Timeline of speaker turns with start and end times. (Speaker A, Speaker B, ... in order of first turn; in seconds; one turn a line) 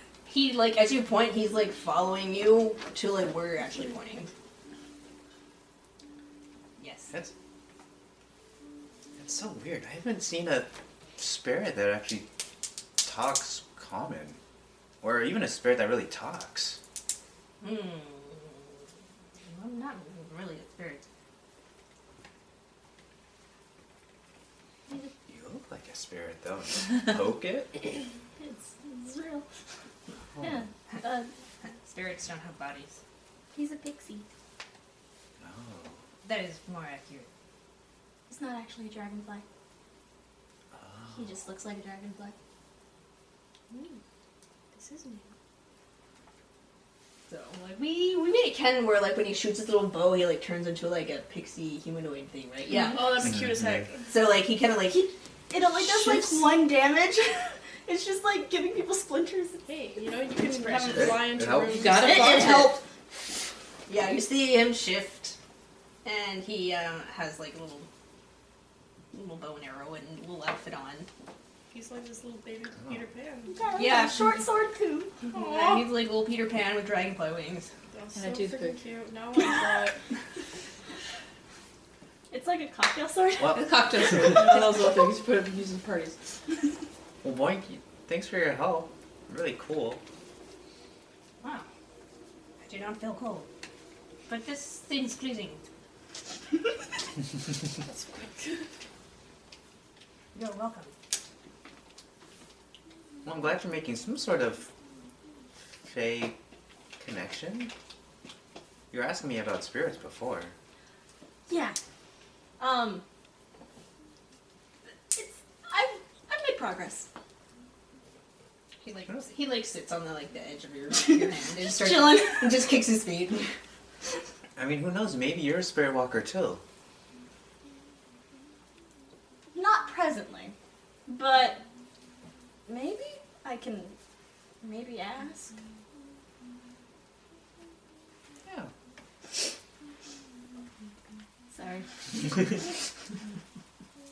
Speaker A: 0.3-4.3
Speaker A: 6.8-7.1
Speaker B: 9.2-12.3
Speaker B: 13.0-14.4
Speaker B: 15.0-16.8
Speaker A: 17.6-18.7
Speaker A: 19.5-21.0
Speaker B: 25.3-28.0
Speaker C: 28.4-29.5
Speaker B: 30.4-30.6
Speaker C: 30.4-31.3
Speaker A: 31.9-33.0
Speaker C: 33.5-34.3
Speaker B: 35.4-36.0
Speaker A: 36.2-37.3
Speaker C: 38.3-39.4
Speaker B: 40.7-41.3
Speaker C: 41.1-42.4
Speaker D: 43.7-44.0
Speaker D: 44.8-45.2
Speaker C: 44.8-45.2
Speaker A: 47.3-53.3
Speaker D: 52.9-54.1
Speaker B: 53.2-53.9
Speaker A: 54.1-55.1
Speaker C: 55.5-59.7
Speaker A: 55.7-56.5
Speaker D: 59.7-62.4
Speaker A: 60.4-61.3
Speaker B: 60.9-61.9
Speaker E: 61.7-62.8
Speaker C: 61.9-62.7
Speaker A: 62.0-62.8
Speaker A: 63.9-65.4
Speaker A: 66.0-67.9
Speaker A: 69.1-71.1
Speaker D: 71.7-73.5
Speaker C: 73.5-75.2
Speaker A: 73.8-74.4
Speaker A: 75.3-77.7
Speaker D: 75.3-75.8
Speaker D: 77.9-80.0
Speaker E: 78.2-78.8
Speaker C: 82.3-84.9
Speaker E: 83.5-86.2
Speaker B: 84.1-84.4
Speaker B: 87.2-90.0
Speaker A: 91.4-91.7
Speaker A: 92.6-93.5
Speaker A: 94.3-95.6
Speaker D: 97.8-98.7
Speaker A: 100.3-100.9
Speaker B: 103.2-104.7
Speaker B: 105.8-106.4
Speaker B: 107.0-107.7
Speaker B: 108.9-110.5
Speaker C: 111.5-111.8
Speaker C: 112.6-113.0
Speaker C: 115.1-117.1
Speaker A: 118.8-123.5
Speaker C: 121.6-122.7
Speaker B: 124.6-126.6
Speaker C: 129.5-130.5
Speaker C: 131.1-131.6
Speaker C: 132.7-134.0
Speaker C: 134.6-135.6
Speaker B: 138.5-138.7
Speaker C: 141.5-142.6